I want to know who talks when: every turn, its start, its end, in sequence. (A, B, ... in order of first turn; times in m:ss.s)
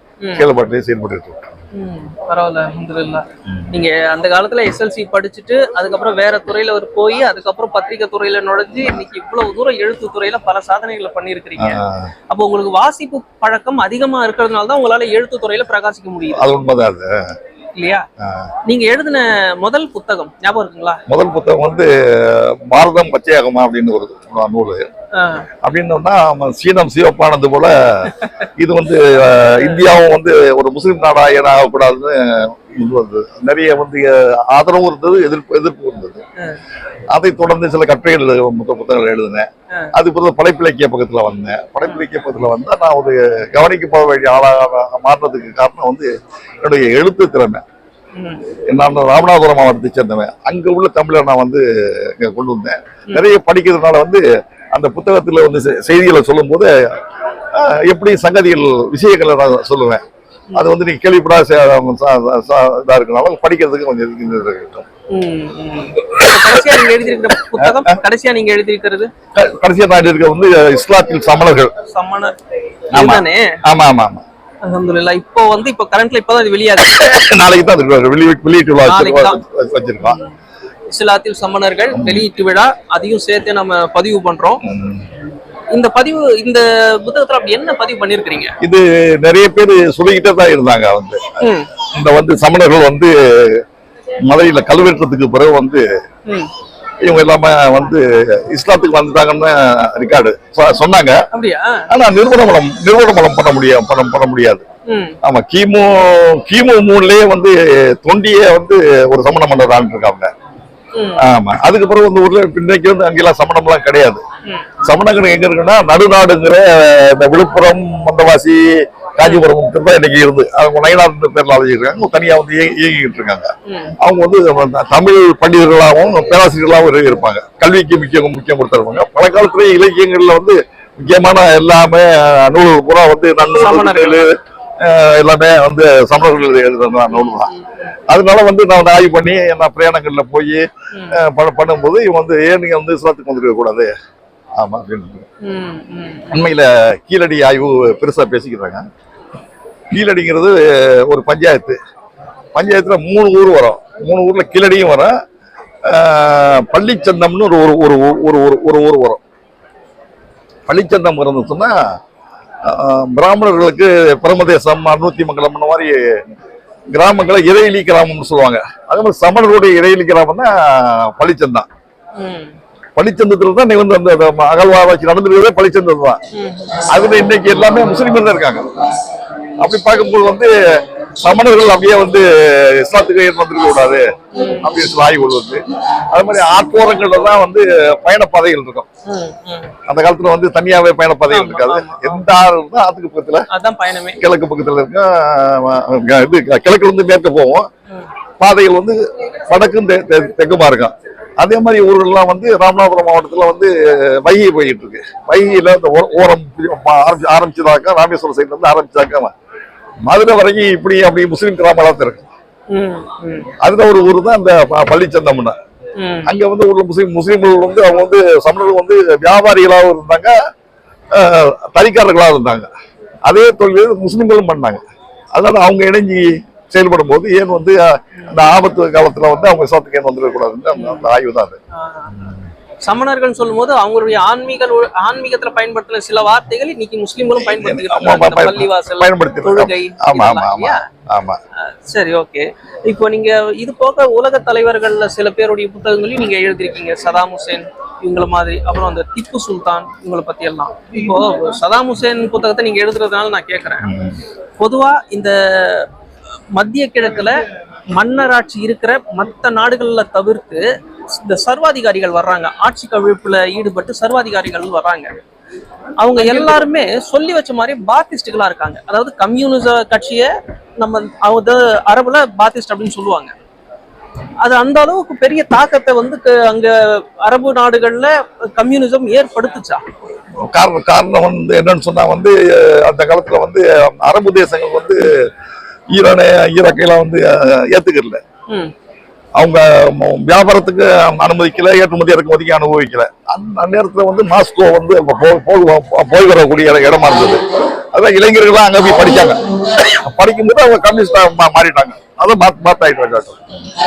0:00.2-0:00.4 A
0:00.4-0:01.6 B
0:01.7-0:16.5 A
0:11.6-0:12.1 B
0:16.3-0:17.3 B
0:17.8-0:18.0 A
0:18.2-0:18.5 B
0:18.6-0:21.0 A
0:21.1-0:24.9 B
0:25.1-0:25.5 A
0:25.6-0:36.2 B
0:37.1-0:46.1 B
0:46.6-0:47.6 B
0:48.2-0:48.4 A
0:48.7-0:54.2 B
0:54.7-0:57.0 B
0:57.5-1:00.0 B
1:00.5-1:04.9 B
1:05.1-1:09.1 A
1:06.1-1:06.7 B
1:07.5-1:08.0 B
1:09.3-1:11.7 B
1:11.8-1:12.3 A
1:12.9-1:13.6 A
1:12.9-1:14.2 B
1:14.6-1:17.1 A
1:16.9-1:20.2 B
1:18.8-1:19.4 A
1:20.0-1:20.4 A
1:20.9-1:24.6 A
1:21.9-1:22.2 B
1:24.6-1:25.1 B
1:25.7-1:28.5 A
1:28.6-1:31.4 B
1:31.4-1:31.7 A
1:31.9-1:33.6 B
1:34.3-1:35.8 B
1:37.0-1:41.2 B
1:41.3-1:41.9 A
1:41.9-1:44.6 B
1:44.9-1:45.2 A
1:45.2-1:50.3 B
1:50.9-1:51.2 A
1:51.2-1:54.2 B
1:54.8-2:03.5 B
2:03.6-2:03.9 A
2:04.0-2:17.5 B
2:13.5-2:14.2 A
2:17.1-2:17.9 A
2:18.1-2:23.9 B
2:20.9-2:21.2 A
2:24.6-2:25.3 B
2:25.4-2:26.4 A
2:26.3-2:28.8 B
2:29.9-2:31.8 B
2:32.5-2:35.1 B
2:35.8-2:39.2 B
2:40.7-2:41.8 B
2:42.6-2:46.2 B
2:46.9-2:51.7 B
2:52.2-2:52.6 A
2:53.0-2:56.2 B
2:56.3-2:56.8 A
2:56.8-2:58.6 B
2:59.6-3:08.9 B
3:04.3-3:04.7 A
3:09.0-3:09.7 A
3:09.9-3:13.4 B
3:11.3-3:12.4 A
3:13.5-3:14.2 A
3:14.2-3:17.7 B
3:18.4-3:29.3 B
3:30.1-3:32.2 B
3:32.7-3:33.5 A
3:33.6-3:35.6 B
3:36.0-3:36.3 A
3:36.2-3:40.3 B
3:41.1-3:42.7 B
3:43.2-3:44.8 B
3:45.3-3:51.6 B
3:50.7-3:51.1 A
3:51.7-3:52.2 A
3:52.1-3:52.4 B
3:52.8-4:00.8 A
3:57.4-4:01.4 B
4:01.6-4:13.9 A
4:13.8-4:14.2 B
4:14.6-4:15.9 A
4:16.5-4:17.4 A
4:18.0-4:25.1 A
4:26.0-4:33.3 A
4:34.4-4:39.8 A
4:40.5-4:45.3 B
4:45.9-4:48.2 B
4:49.4-5:03.4 B